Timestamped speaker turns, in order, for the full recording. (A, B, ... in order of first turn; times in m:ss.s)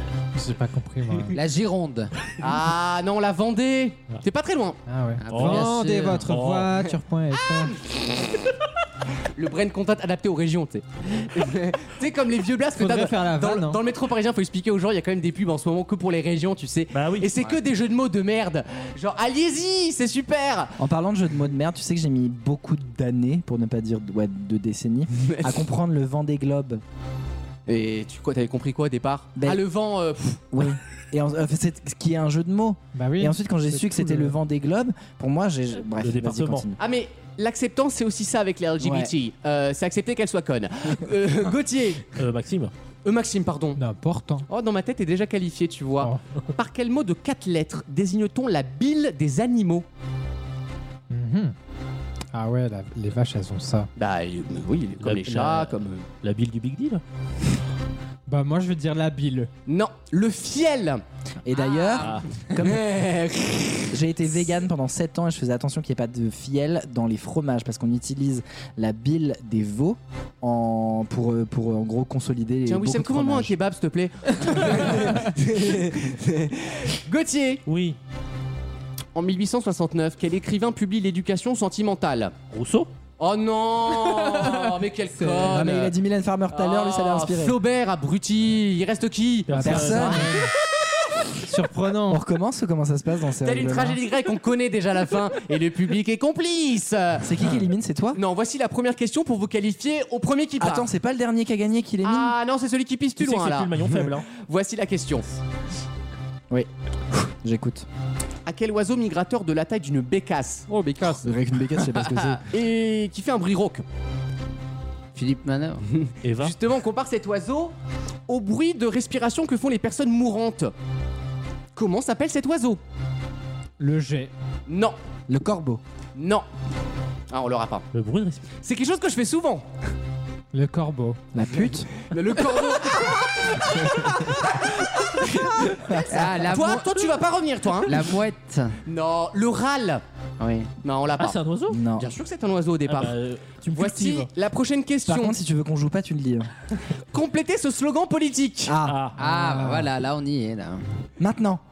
0:00.3-0:01.4 A
0:01.3-0:02.1 B
0:02.4-0:04.8 C
0:04.9-0:07.8 A
0:05.2-0:06.3 B
0:05.3-0:05.7 D
0:06.3-0:06.8 D
0:09.4-0:20.7 C
0:12.7-0:13.8 A
0:16.9-0:17.3 D
0:20.8-0:26.8 E
0:25.2-0:25.6 C
0:27.7-0:30.4 C
0:29.4-0:29.6 E
0:30.5-0:36.8 E
0:32.9-0:34.3 A
0:36.0-0:36.7 D
0:36.8-0:42.0 C
0:38.8-0:39.1 E
0:42.2-0:42.7 D
0:43.0-0:43.8 C
0:43.8-0:44.5 A
0:44.5-0:49.8 C
0:51.1-0:51.5 A
0:52.3-0:53.9 A
0:54.0-0:56.0 C
0:55.0-0:57.0 D
0:58.3-0:59.5 A
0:59.7-1:01.0 C
1:01.4-1:03.0 E
1:01.8-1:03.9 C
1:03.9-1:13.5 E
1:12.6-1:17.6 C
1:17.6-1:18.0 D
1:19.1-1:22.3 C
1:22.5-1:22.9 D
1:23.2-1:25.9 C
1:25.2-1:27.6 E
1:26.5-1:30.2 C
1:29.5-1:30.3 D
1:29.5-1:30.5 A
1:29.6-1:30.4 E
1:31.4-1:32.2 A
1:32.1-1:34.0 E
1:33.4-1:37.3 C
1:37.2-1:38.2 E
1:38.1-1:40.9 C
1:40.6-1:42.4 E
1:42.0-1:45.3 C
1:43.2-1:44.3 D
1:47.4-1:47.8 E
1:48.4-1:51.1 C
1:51.2-1:52.4 E
1:51.9-1:53.8 C
1:55.1-1:55.8 B
1:56.0-1:57.7 C
1:56.2-1:56.6 D
1:58.3-2:00.7 C
2:01.7-2:02.8 C
2:03.8-2:04.3 A
2:04.7-2:05.0 C
2:05.3-2:05.8 E
2:06.2-2:06.4 C
2:07.3-2:07.8 C
2:07.9-2:08.4 D
2:08.6-2:09.6 C
2:10.5-2:11.3 A
2:11.3-2:11.9 E
2:12.1-2:18.1 C
2:15.8-2:16.3 E
2:16.1-2:17.1 B
2:17.8-2:18.8 B
2:18.9-2:20.0 C
2:20.4-2:20.7 B
2:20.8-2:21.4 C
2:21.2-2:21.8 D
2:21.7-2:22.1 E
2:22.0-2:23.1 C
2:22.9-2:23.9 D
2:23.7-2:25.4 C
2:25.0-2:26.5 E
2:27.1-2:28.8 C
2:28.6-2:29.0 E
2:28.8-2:29.2 D
2:29.2-2:30.8 B
2:29.2-2:29.9 A
2:31.2-2:31.6 E